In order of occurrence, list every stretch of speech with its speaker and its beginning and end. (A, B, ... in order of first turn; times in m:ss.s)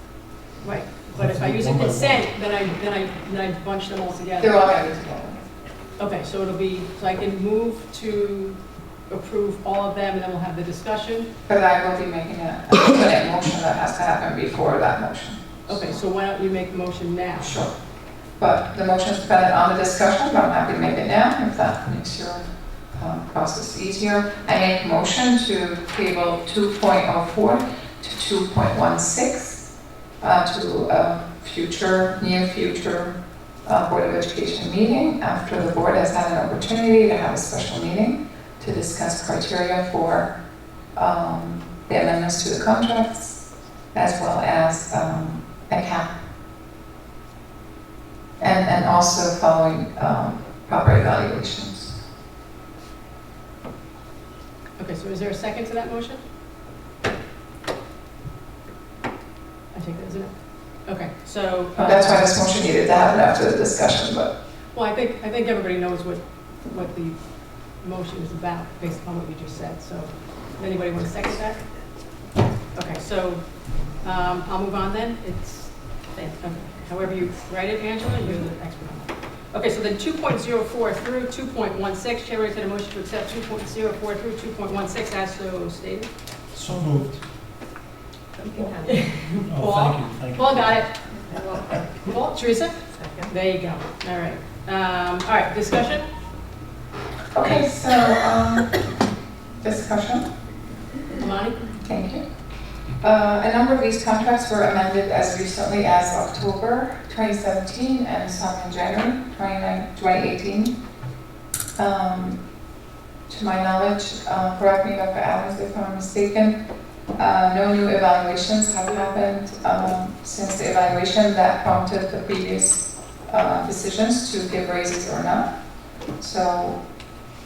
0:00.6-0:04.6 A
0:01.1-0:02.2 B
0:04.4-0:05.4 C
0:06.0-0:11.3 A
0:11.5-0:16.0 C
0:15.7-0:17.6 A
0:17.4-0:17.8 C
0:18.4-0:29.6 C
0:30.2-0:40.3 C
0:40.9-0:46.1 C
0:48.4-0:52.0 C
0:54.8-0:56.2 A
0:59.7-1:02.4 A
1:01.8-1:04.3 C
1:04.7-1:12.2 A
1:12.7-1:26.1 A
1:26.5-1:27.1 B
1:28.4-1:29.4 D
1:28.8-1:31.0 A
1:29.5-1:30.7 B
1:31.3-1:31.8 D
1:32.0-1:36.1 A
1:32.9-1:33.3 D
1:37.3-1:38.8 C
1:39.6-1:40.3 C
1:41.2-1:41.6 A
1:41.8-1:42.2 C
1:43.0-1:50.8 C
1:51.8-1:52.4 C
1:53.3-1:56.6 C
1:57.2-2:05.5 C
2:06.2-2:06.8 C